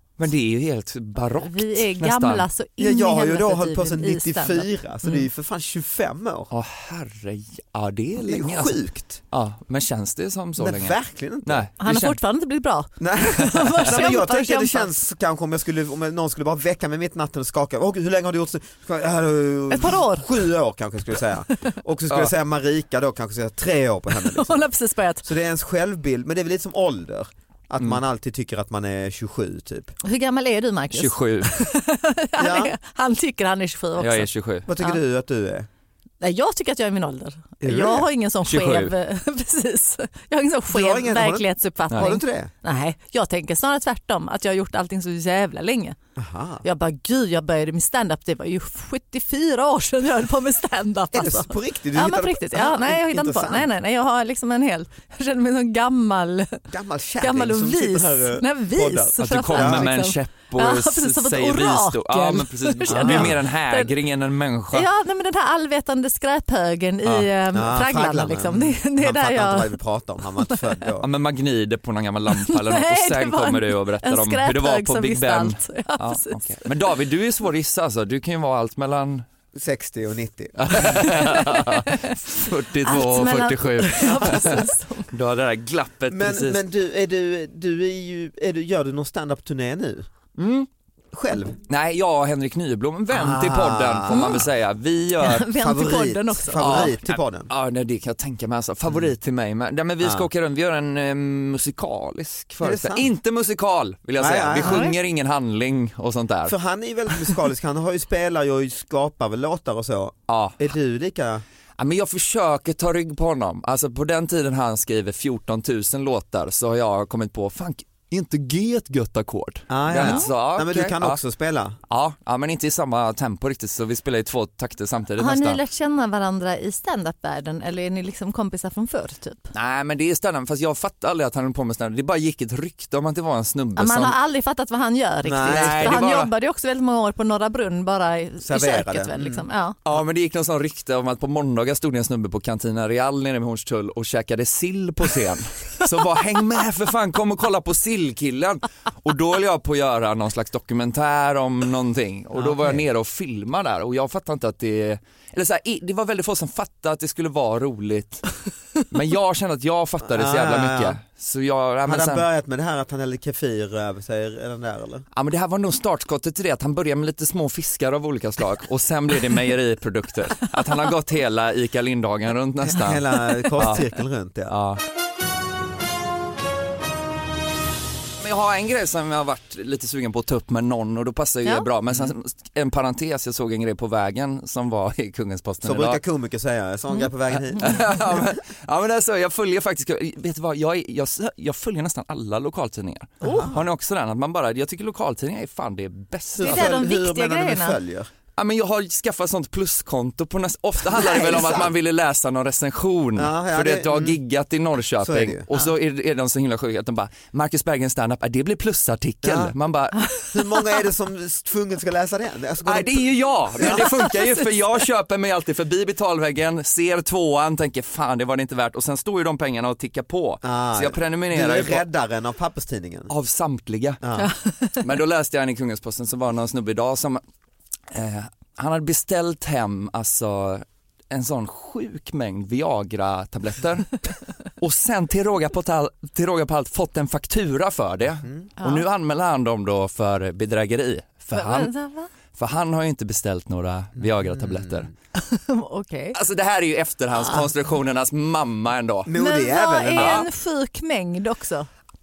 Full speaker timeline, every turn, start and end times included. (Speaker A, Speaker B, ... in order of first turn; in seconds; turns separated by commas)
Speaker A: 0.2-2.5, Speaker B: 1.4-5.2, Speaker C: 2.8-6.5, Speaker A: 6.5-8.8, Speaker C: 8.2-9.2, Speaker A: 9.3-12.2, Speaker C: 10.6-11.7, Speaker B: 11.8-14.9, Speaker C: 13.0-24.6, Speaker B: 19.7-20.3, Speaker B: 24.1-25.2, Speaker C: 25.2-29.9, Speaker B: 30.0-34.3, Speaker A: 30.9-31.5, Speaker C: 32.4-32.7, Speaker A: 34.0-34.7, Speaker C: 34.7-35.7, Speaker B: 36.2-46.0, Speaker C: 37.6-38.0, Speaker A: 37.7-38.9, Speaker C: 40.7-42.5, Speaker C: 46.2-46.6, Speaker B: 46.6-56.6, Speaker C: 51.1-53.7, Speaker C: 56.7-59.9, Speaker B: 57.2-63.9, Speaker A: 59.2-64.9, Speaker C: 62.9-63.4, Speaker B: 64.7-70.6, Speaker C: 67.5-71.1, Speaker A: 71.0-79.3, Speaker B: 72.3-76.7, Speaker C: 79.5-81.2, Speaker A: 80.6-86.6, Speaker B: 81.1-82.1, Speaker B: 82.8-85.1, Speaker C: 84.2-84.5, Speaker C: 86.1-90.1, Speaker A: 90.4-90.7, Speaker C: 91.1-91.6, Speaker A: 91.7-95.5, Speaker C: 93.1-94.4, Speaker B: 94.1-94.4, Speaker B: 95.2-97.0, Speaker C: 95.6-97.5, Speaker A: 96.6-106.5, Speaker C: 100.0-100.3, Speaker C: 102.6-103.1, Speaker C: 104.2-104.9, Speaker B: 104.6-105.0, Speaker C: 106.5-111.4, Speaker A: 110.3-110.6, Speaker A: 111.8-121.2, Speaker C: 119.7-121.8, Speaker B: 120.0-120.3, Speaker A: 121.9-125.6, Speaker B: 125.2-129.5, Speaker A: 129.5-134.2, Speaker B: 133.8-139.8, Speaker C: 135.2-136.0, Speaker A: 135.4-136.3, Speaker C: 138.4-139.4, Speaker A: 139.8-158.3, Speaker C: 152.3-152.8, Speaker A: 158.9-162.2, Speaker C: 160.0-161.0, Speaker C: 161.8-165.1, Speaker A: 165.2-173.8, Speaker C: 172.6-174.5, Speaker A: 174.5-174.8, Speaker A: 178.2-186.0, Speaker C: 185.6-188.2, Speaker A: 187.6-196.8, Speaker B: 193.2-193.5, Speaker C: 193.2-193.6, Speaker C: 196.3-198.1, Speaker B: 196.4-197.8, Speaker A: 198.4-210.0, Speaker C: 200.9-201.7, Speaker C: 203.2-204.2, Speaker C: 205.0-205.5, Speaker C: 209.2-209.5, Speaker C: 210.3-213.9, Speaker A: 212.7-221.8, Speaker B: 213.7-214.3, Speaker C: 220.4-223.1, Speaker A: 223.1-224.0, Speaker C: 224.0-224.3, Speaker B: 224.2-224.8, Speaker A: 224.8-227.2, Speaker A: 227.9-241.7, Speaker B: 238.6-238.8, Speaker B: 241.3-242.1, Speaker A: 242.3-244.9, Speaker C: 244.0-244.9, Speaker B: 245.2-246.2, Speaker A: 246.1-249.1, Speaker C: 249.1-250.2, Speaker B: 249.2-251.7, Speaker A: 249.9-250.3